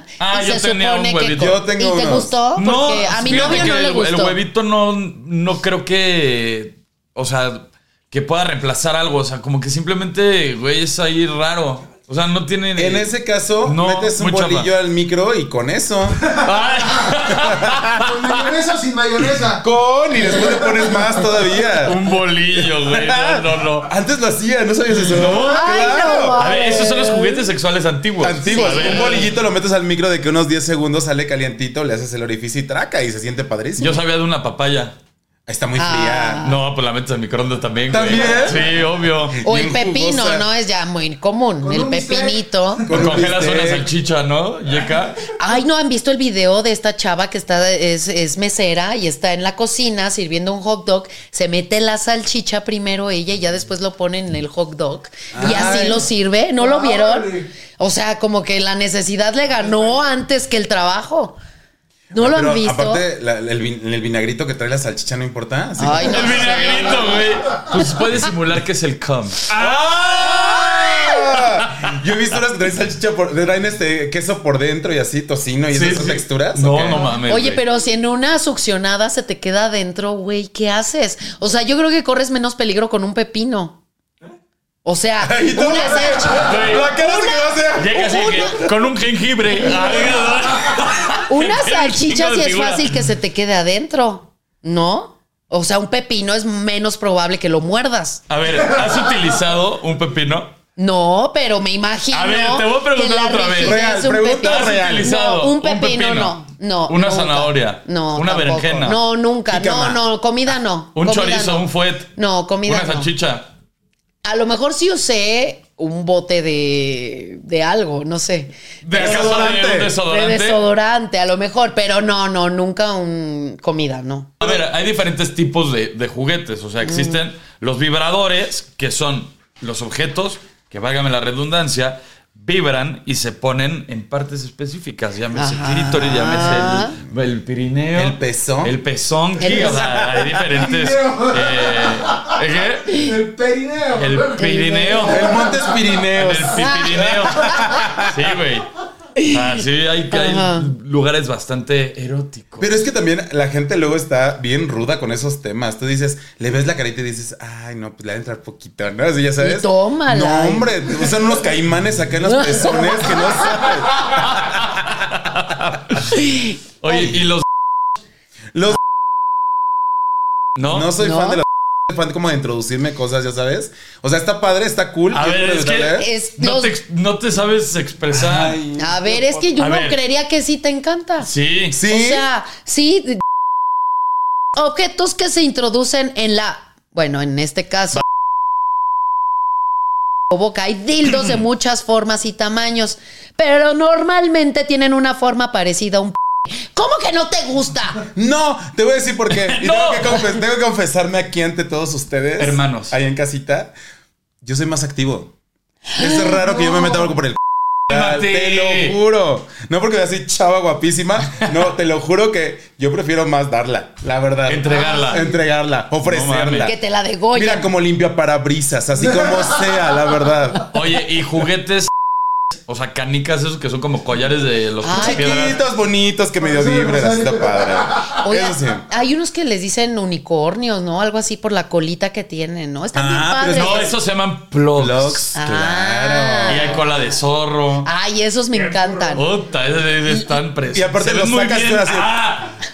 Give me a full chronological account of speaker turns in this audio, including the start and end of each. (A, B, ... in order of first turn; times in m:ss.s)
0:00.2-0:01.6 A
0:00.3-0:04.4 B
0:01.3-0:02.3 C
0:02.6-0:13.1 A
0:03.3-0:03.8 C
0:12.8-0:16.3 C
0:13.6-0:14.7 A
0:16.4-0:18.0 A
0:16.8-0:17.1 D
0:17.4-0:17.8 C
0:17.9-0:19.7 D
0:19.6-0:22.0 C
0:20.2-0:21.3 D
0:21.8-0:23.9 A
0:22.6-0:26.5 C
0:25.0-0:29.2 A
0:25.5-0:27.5 B
0:28.2-0:34.0 C
0:28.5-0:29.3 B
0:33.8-0:35.0 A
0:35.5-0:36.5 C
0:35.8-0:36.6 B
0:36.4-0:39.4 A
0:37.9-0:38.7 C
0:38.1-0:38.7 D
0:39.3-0:40.5 C
0:39.4-0:43.0 B
0:41.6-0:43.3 D
0:42.9-0:43.9 C
0:42.9-0:45.2 A
0:45.4-1:01.4 B
0:55.3-0:56.1 C
0:55.4-0:57.5 D
0:59.6-0:59.9 D
1:02.1-1:03.0 B
1:02.1-1:06.8 C
1:05.8-1:07.3 B
1:06.0-1:12.0 A
1:06.7-1:07.8 D
1:09.5-1:17.1 C
1:10.3-1:11.4 B
1:15.7-1:17.6 A
1:17.1-1:23.8 B
1:24.8-1:28.7 B
1:25.2-1:28.0 C
1:26.4-1:26.9 A
1:27.8-1:33.0 A
1:29.6-1:30.2 B
1:31.3-1:38.2 B
1:38.3-1:40.5 A
1:40.8-1:53.1 B
1:42.1-1:43.8 A
1:43.6-1:45.1 C
1:44.4-1:49.0 A
1:49.5-1:50.0 C
1:51.0-1:52.1 A
1:52.6-1:53.5 A
1:54.2-1:59.5 B
1:58.8-2:00.6 A
1:58.9-1:59.9 C
2:00.0-2:04.5 B
2:04.4-2:23.1 A
2:06.8-2:07.2 B
2:15.4-2:17.0 B
2:18.0-2:18.8 C
2:19.4-2:20.4 C
2:20.4-2:22.3 D
2:22.9-2:26.4 D
2:23.9-2:25.3 A
2:24.4-2:25.1 B
2:25.1-2:28.3 C
2:26.2-2:28.7 A
2:26.6-2:27.0 B
2:27.4-2:27.6 D
2:29.2-2:30.7 B
2:29.2-2:32.7 A
2:32.6-2:45.2 C
2:39.4-2:40.9 B
2:42.2-2:43.4 B
2:43.9-2:46.2 A
2:46.1-2:46.6 B
2:46.8-2:47.4 A
2:46.9-2:47.2 C
2:48.5-2:48.8 C
2:50.6-2:50.9 A
2:50.7-2:56.1 C
2:51.0-2:51.4 B
2:55.1-2:58.6 A
2:55.8-2:56.7 B
2:58.1-2:59.4 C
2:58.8-3:01.3 B
2:59.6-3:00.0 A
3:01.2-3:01.8 A
3:01.7-3:02.2 C
3:01.9-3:03.2 B
3:04.6-3:08.0 B
3:10.3-3:18.1 B
3:18.1-3:23.7 C
3:19.4-3:20.2 A
3:22.4-3:23.0 A
3:24.4-3:25.3 C
3:25.9-3:27.1 B
3:26.0-3:36.7 C
3:27.9-3:29.0 A
3:34.5-3:35.2 A
3:36.0-3:36.7 A
3:36.6-3:37.7 B
3:37.3-3:40.7 C
3:40.7-3:41.9 A
3:42.7-3:45.6 A
3:44.8-3:45.5 B
3:45.0-3:48.8 C
3:46.4-3:48.2 D
3:48.2-3:53.9 B
3:52.9-3:53.9 C
3:53.5-3:55.4 A
3:54.8-3:56.8 C
3:55.4-3:56.8 B
3:56.5-3:57.9 A
3:57.8-3:59.3 B
3:59.1-4:02.6 A
4:00.7-4:02.3 C